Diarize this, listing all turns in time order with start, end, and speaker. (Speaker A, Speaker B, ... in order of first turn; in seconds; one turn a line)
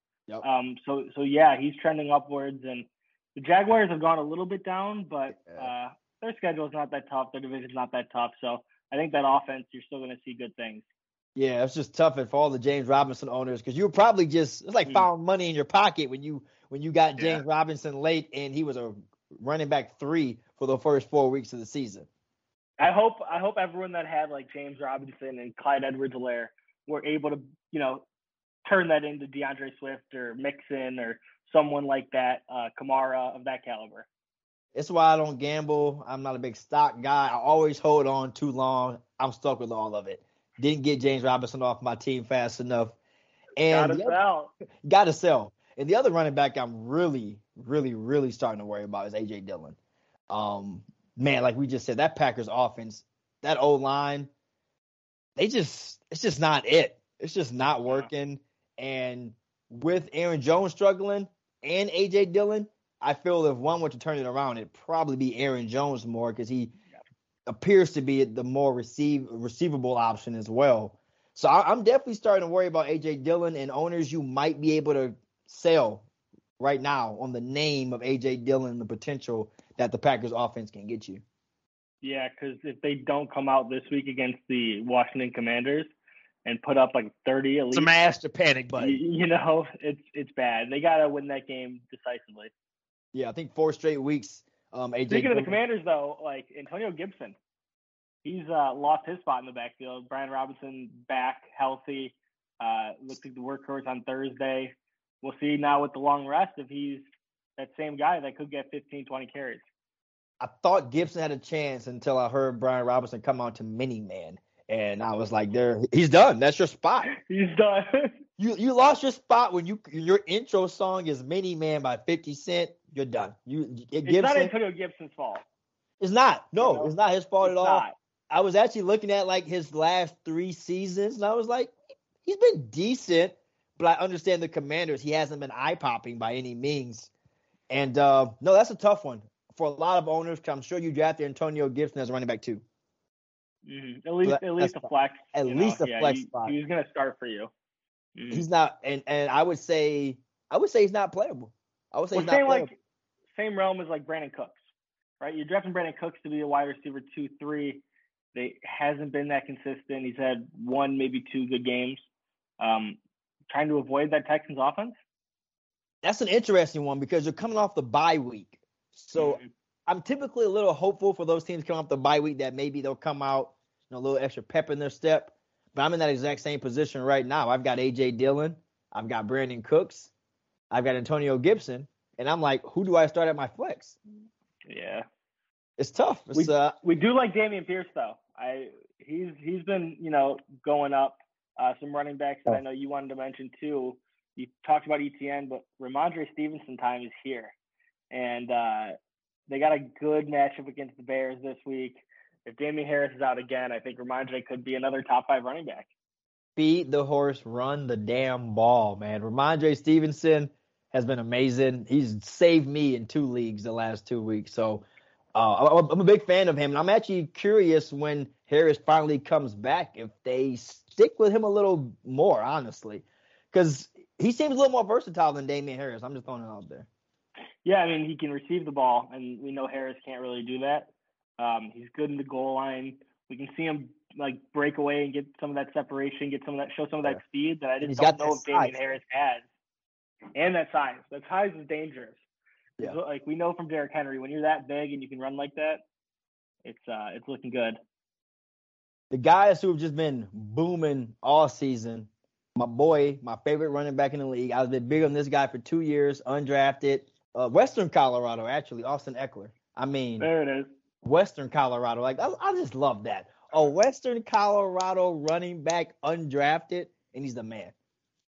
Speaker A: 0.4-10.8
Speaker B: 11.4-22.1
Speaker A: 17.2-17.4
Speaker A: 22.8-28.0
Speaker A: 28.6-34.1
Speaker B: 34.8-43.0
Speaker B: 43.6-44.2
Speaker A: 43.7-44.5
Speaker B: 44.9-49.8
Speaker B: 50.3-54.3
Speaker B: 55.4-66.7
Speaker B: 67.5-76.0
Speaker B: 76.6-81.2
Speaker A: 82.0-85.9
Speaker A: 86.5-87.9
Speaker B: 87.7-89.0
Speaker A: 88.8-92.5
Speaker B: 93.1-95.6
Speaker A: 95.1-97.4
Speaker A: 98.2-107.0
Speaker A: 107.6-109.7
Speaker B: 110.4-117.1
Speaker A: 117.1-118.1
Speaker B: 118.4-124.5
Speaker A: 124.0-125.4
Speaker B: 126.0-137.1
Speaker A: 126.6-127.9
Speaker B: 137.7-142.6
Speaker A: 143.7-147.5
Speaker B: 144.2-146.6
Speaker A: 148.2-148.5
Speaker B: 148.3-152.7
Speaker A: 152.1-152.8
Speaker A: 153.3-154.6
Speaker A: 155.2-162.0
Speaker A: 162.6-163.0
Speaker A: 163.5-165.0
Speaker B: 166.0-180.1
Speaker A: 169.2-169.5
Speaker B: 180.7-184.0
Speaker A: 184.7-185.1
Speaker B: 185.8-186.8
Speaker A: 186.3-197.5
Speaker A: 198.1-199.0
Speaker A: 199.5-205.9
Speaker B: 206.6-226.9
Speaker A: 227.7-239.5
Speaker B: 237.8-238.9
Speaker A: 240.4-242.2
Speaker A: 242.8-245.8
Speaker A: 246.7-247.8
Speaker B: 249.1-260.3
Speaker A: 260.2-260.7
Speaker B: 261.0-267.7